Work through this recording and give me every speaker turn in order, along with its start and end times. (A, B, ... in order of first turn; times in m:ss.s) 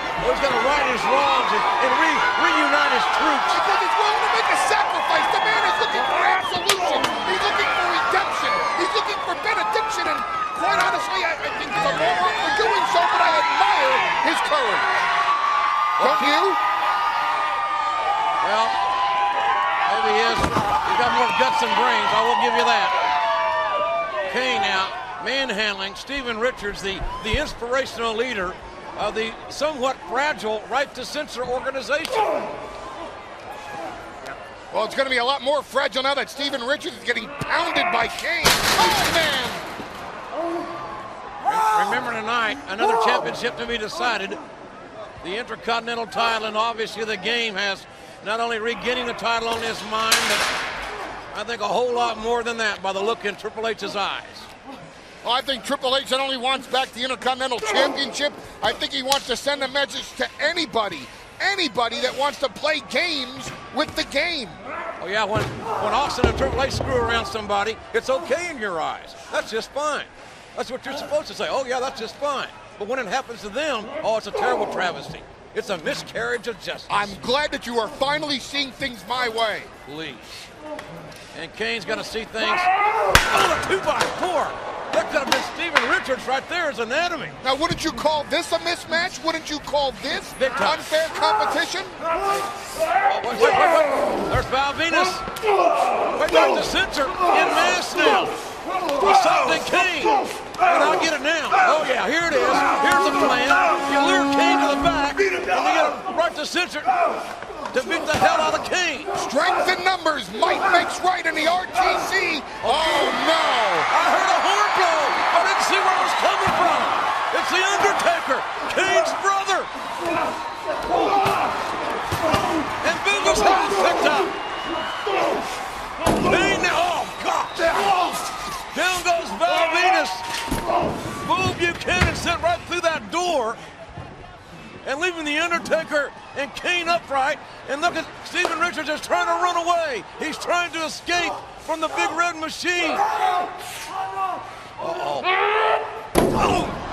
0:00.2-0:03.6 A
0:03.5-0:14.9 B
0:16.0-0:16.3 A
0:16.0-0:16.6 B
0:18.4-0:18.8 A
0:19.9-0:23.0 A
0:24.3-0:32.3 A
0:34.7-0:39.6 B
0:41.4-0:44.4 A
0:45.2-0:50.4 A
0:51.3-0:54.5 A
0:55.2-1:04.6 B
1:05.0-1:17.1 A
1:16.9-1:19.7 B
1:19.8-1:20.5 A
1:21.3-1:27.4 A
1:27.4-1:32.0 B
1:30.4-1:30.9 A
1:33.1-1:35.2 A
1:36.1-1:38.3 A
1:38.9-1:47.0 A
1:47.7-1:49.1 A
1:49.1-1:53.9 B
1:52.6-1:53.2 A
1:53.9-1:59.7 A
2:02.8-2:04.3 A
2:06.1-2:07.8 A
2:08.7-2:10.2 A
2:11.2-2:13.6 A
2:14.8-2:23.1 A
2:24.8-2:25.3 A